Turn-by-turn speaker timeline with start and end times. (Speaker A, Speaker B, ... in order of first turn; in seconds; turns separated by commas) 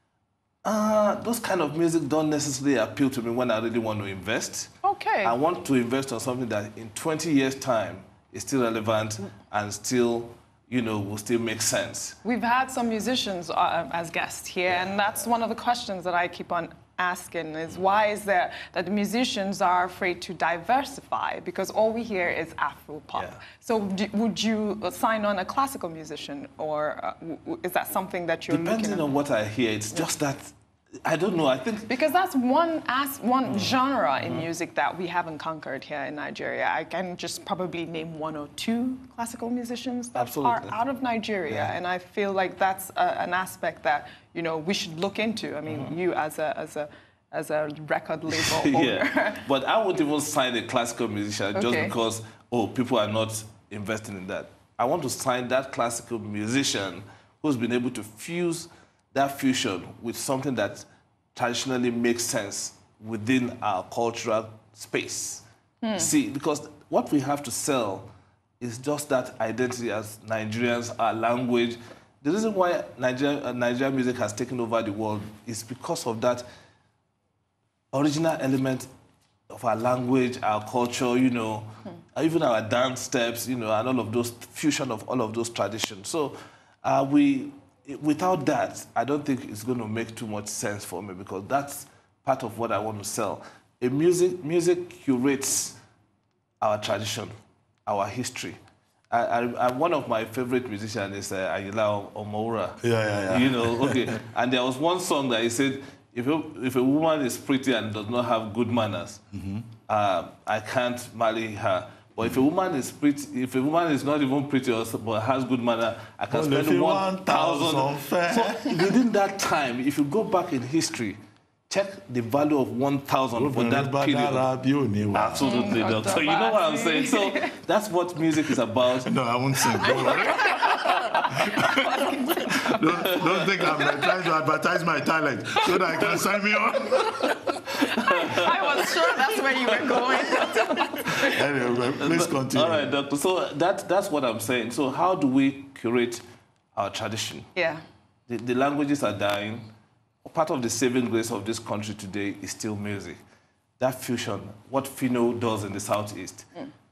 Speaker A: 0.7-4.7, Speaker B: 4.8-5.4, Speaker A: 5.2-12.2, Speaker B: 12.2-29.1, Speaker A: 23.1-23.4, Speaker A: 28.5-30.5, Speaker A: 31.1-31.9, Speaker B: 31.9-49.4, Speaker A: 33.5-34.5, Speaker A: 40.1-40.8, Speaker A: 41.5-41.7, Speaker A: 45.7-46.0, Speaker A: 48.3-65.5, Speaker B: 51.5-52.0, Speaker B: 65.8-66.1, Speaker A: 66.0-76.5, Speaker A: 77.9-78.9, Speaker A: 79.5-95.8, Speaker A: 96.6-97.3, Speaker A: 97.9-98.6, Speaker A: 99.1-109.2, Speaker C: 102.8-104.2, Speaker C: 109.3-109.7, Speaker A: 109.9-121.2, Speaker C: 116.3-118.8, Speaker A: 121.7-124.5, Speaker C: 123.3-125.8, Speaker A: 125.1-131.3, Speaker B: 125.4-127.6, Speaker C: 129.1-130.8, Speaker B: 129.8-132.7, Speaker C: 131.3-137.3, Speaker A: 133.0-133.9, Speaker B: 133.7-134.1, Speaker A: 137.8-141.1, Speaker B: 138.0-141.4, Speaker C: 141.2-142.9, Speaker A: 142.0-146.2, Speaker A: 146.8-147.5, Speaker B: 147.6-147.8, Speaker A: 148.3-149.7, Speaker A: 150.2-153.2, Speaker A: 153.8-156.5